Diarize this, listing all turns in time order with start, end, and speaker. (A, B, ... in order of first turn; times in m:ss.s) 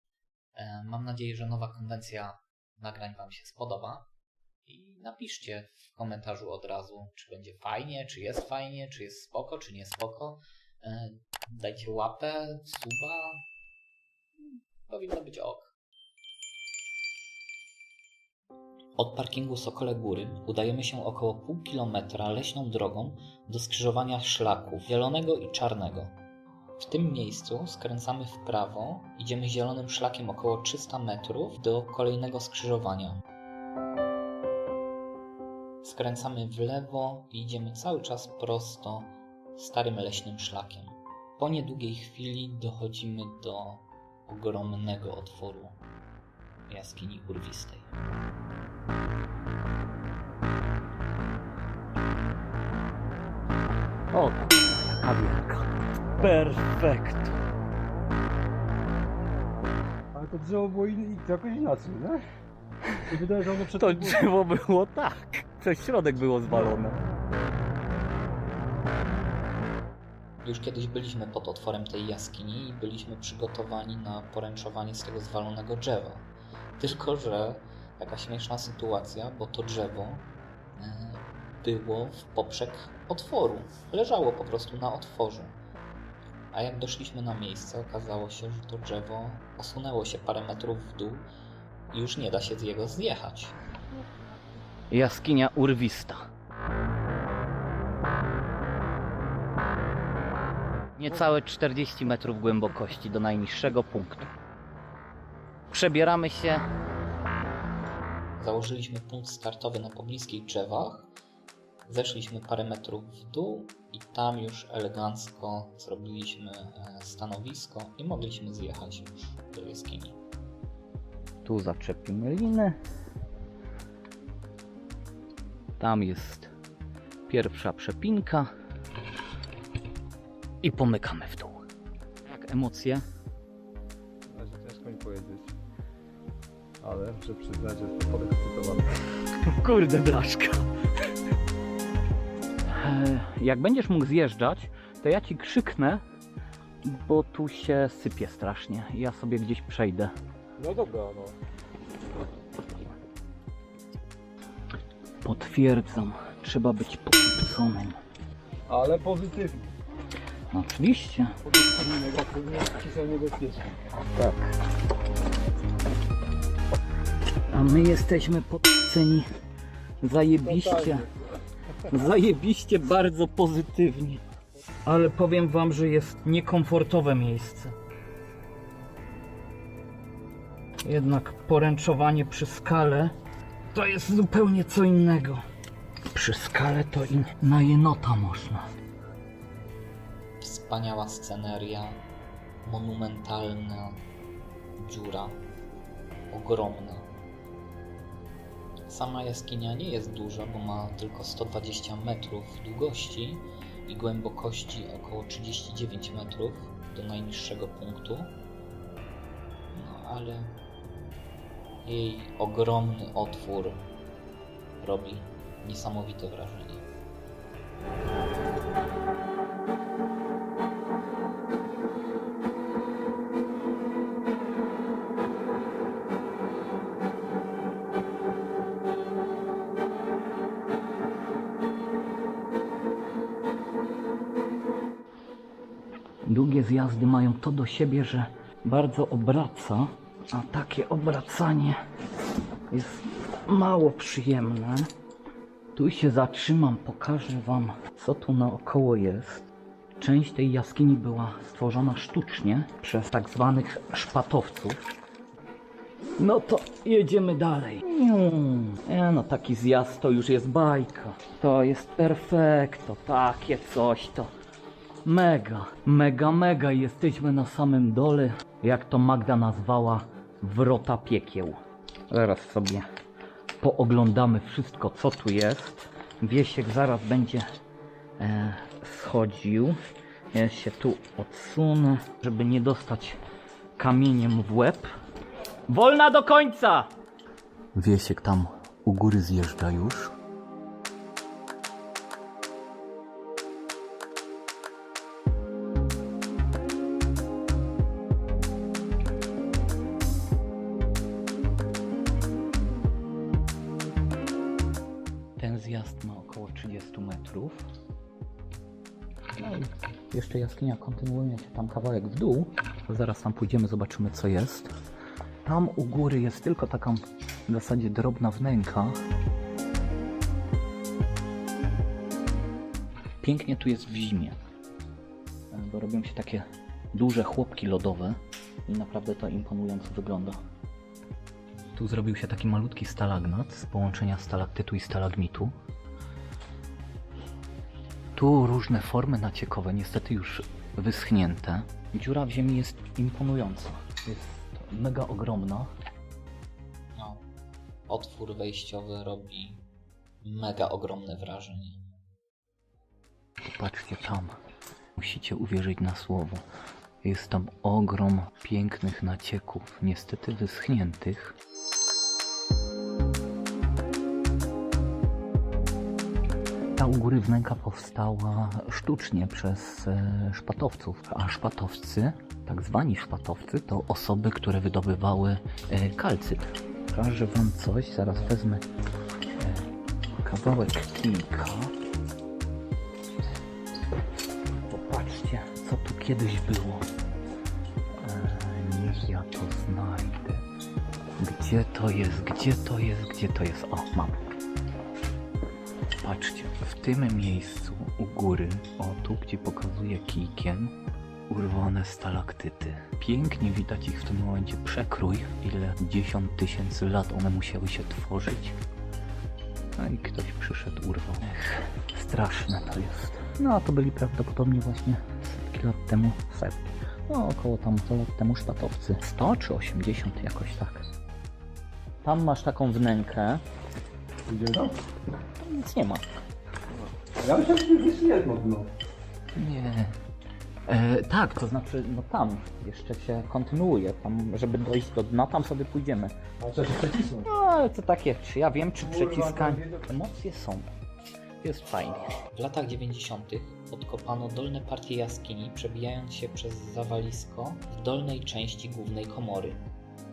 0:00.6-0:04.1 A
0:04.6-0:13.4 A
0:14.9-0:15.7 A
0:19.0-0:26.1 A
0:26.8-0:33.2 A
0:35.8-0:45.8 A
0:46.7-0:47.9 A
0:54.1-0:57.4 B
1:00.1-1:02.2 C
1:03.0-1:04.3 C
1:03.8-1:07.0 B
1:10.4-1:16.3 A
1:16.8-1:25.6 A
1:26.5-1:31.3 A
1:31.9-1:33.5 A
1:34.9-1:36.3 B
1:41.0-1:44.3 B
1:45.7-1:46.6 B
1:48.4-1:51.1 A
1:51.8-2:00.2 A
2:01.4-2:02.8 B
2:05.8-2:06.5 B
2:07.3-2:08.5 B
2:10.6-2:11.6 B
2:12.2-2:13.0 B
2:14.3-2:15.5 C
2:16.8-2:19.0 C
2:19.5-2:20.7 B
2:22.7-2:26.0 B
2:26.8-2:30.1 B
2:30.6-2:31.3 C
2:35.2-2:38.0 B
2:38.7-2:39.7 C
2:40.5-2:41.3 B
2:41.4-2:43.8 C
2:44.2-2:44.5 B
2:47.5-2:49.3 B
2:50.0-2:51.1 B
2:50.4-2:51.1 C
2:51.9-2:54.2 B
2:54.8-2:57.7 B
3:00.8-3:03.1 B
3:03.7-3:05.4 B
3:06.1-3:08.7 B
3:10.4-3:12.0 A
3:12.6-3:14.0 A
3:14.8-3:15.4 A
3:16.3-3:17.1 A
3:18.8-3:28.4 A
3:29.7-3:30.5 A
3:31.8-3:33.8 A
3:34.8-3:36.8 A
3:56.2-4:01.8 B
4:02.7-4:04.9 B
4:05.7-4:09.4 B
4:10.0-4:14.8 B
4:16.2-4:24.3 B
4:25.0-4:32.8 B
4:33.6-4:37.4 B
4:38.2-4:39.8 B
4:40.3-4:43.2 B
4:43.8-4:44.9 B
4:45.7-4:46.9 B
4:47.7-4:50.1 B
5:05.4-5:07.6 B
5:09.4-5:14.7 B
5:15.4-5:19.0 B
5:23.2-5:24.4 B
5:25.5-5:30.4 B
5:31.7-5:35.5 B
5:38.2-5:45.7 B
5:47.0-5:47.2 A
5:47.9-5:49.6 A
5:50.2-5:51.8 A
5:53.4-5:54.3 B
5:55.0-5:56.4 B
5:57.0-6:01.4 B
6:06.8-6:18.6 B
6:19.4-6:19.7 B
6:20.2-6:21.7 B
6:24.7-6:26.9 B
6:28.0-6:30.4 B
6:31.2-6:34.3 B
6:36.0-6:40.7 B
6:41.3-6:48.6 B
6:49.8-7:00.8 B
7:02.0-7:03.4 B
7:04.3-7:04.8 C
7:05.4-7:06.0 B
7:06.7-7:08.7 C
7:09.3-7:10.0 B
7:10.7-7:16.1 B
7:16.4-7:17.2 C
7:17.2-7:20.7 B
7:18.8-7:19.8 C
7:21.4-7:22.1 B
7:22.3-7:29.6 A